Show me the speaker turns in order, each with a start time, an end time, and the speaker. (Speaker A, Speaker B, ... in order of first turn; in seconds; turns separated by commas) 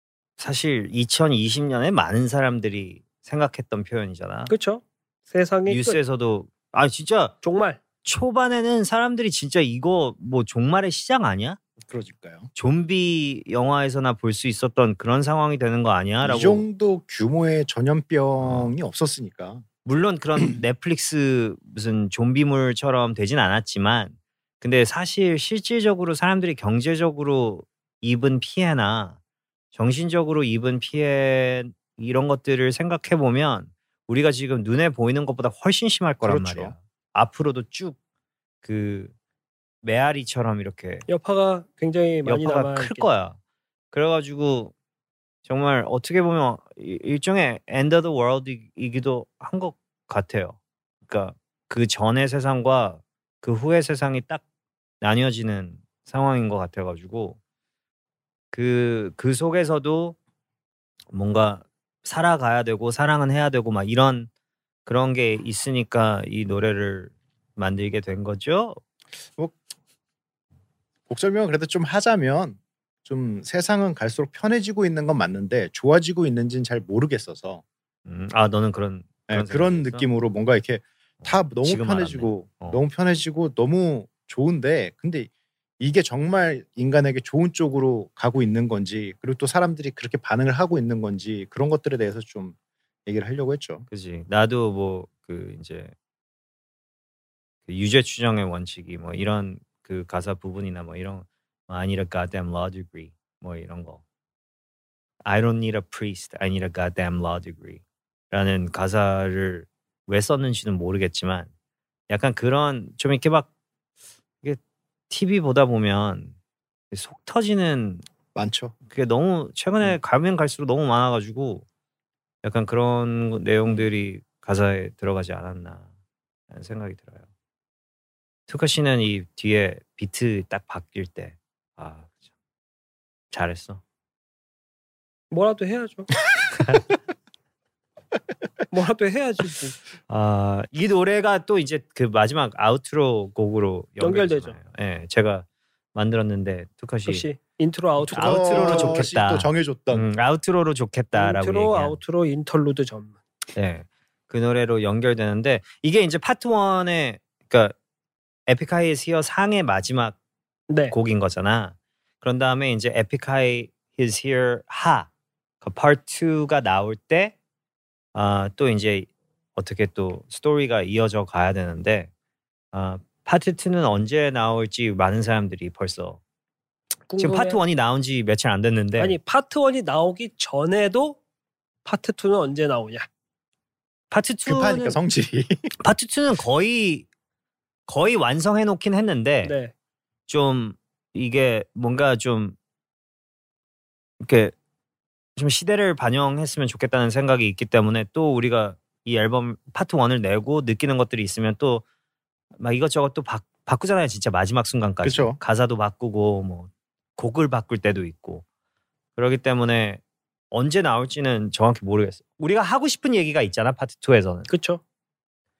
Speaker A: 0.4-4.5, Speaker B: 4.5-6.0, Speaker A: 5.7-7.3, Speaker B: 7.4-7.8, Speaker A: 8.0-11.6, Speaker C: 11.9-12.5, Speaker A: 12.6-16.6, Speaker C: 16.2-19.6, Speaker A: 18.4-18.7, Speaker A: 19.8-29.2, Speaker A: 29.7-38.0, Speaker C: 36.2-36.7, Speaker A: 38.6-39.1, Speaker A: 39.8-41.0, Speaker B: 41.1-43.1, Speaker A: 42.2-43.4, Speaker A: 43.9-44.7, Speaker A: 45.5-54.4, Speaker A: 55.0-57.4, Speaker A: 58.5-60.1, Speaker A: 61.1-64.3, Speaker A: 64.8-68.8, Speaker C: 71.1-77.6, Speaker A: 78.0-80.1, Speaker C: 79.3-92.5, Speaker A: 81.2-82.8, Speaker C: 93.0-93.8, Speaker A: 93.9-95.9, Speaker A: 97.7-104.0, Speaker A: 105.2-111.5, Speaker A: 112.1-113.5, Speaker A: 115.1-116.3, Speaker A: 116.9-118.0, Speaker C: 118.3-118.7, Speaker A: 118.9-121.6, Speaker A: 122.4-125.9, Speaker A: 126.5-127.3, Speaker A: 128.5-132.2, Speaker A: 133.3-133.8, Speaker B: 135.3-136.1, Speaker A: 136.6-136.9, Speaker B: 138.7-139.8, Speaker A: 140.1-147.3, Speaker B: 144.0-144.6, Speaker B: 147.1-149.1, Speaker C: 148.0-150.1, Speaker A: 148.1-152.0, Speaker B: 151.1-153.2, Speaker A: 153.5-157.7, Speaker A: 158.5-160.2, Speaker B: 160.7-160.9, Speaker A: 160.9-165.1, Speaker A: 165.6-167.3, Speaker A: 168.1-172.1, Speaker A: 172.7-176.2, Speaker B: 177.1-177.6, Speaker A: 177.2-179.2, Speaker B: 179.0-181.2, Speaker B: 181.8-183.1, Speaker A: 184.1-185.0, Speaker C: 184.4-185.7, Speaker A: 185.8-187.1, Speaker A: 187.9-189.5, Speaker B: 189.4-189.7, Speaker A: 190.3-192.6, Speaker A: 194.2-194.5, Speaker A: 195.3-201.8, Speaker A: 202.6-208.4, Speaker C: 205.0-205.4, Speaker A: 209.2-214.5, Speaker B: 214.5-214.8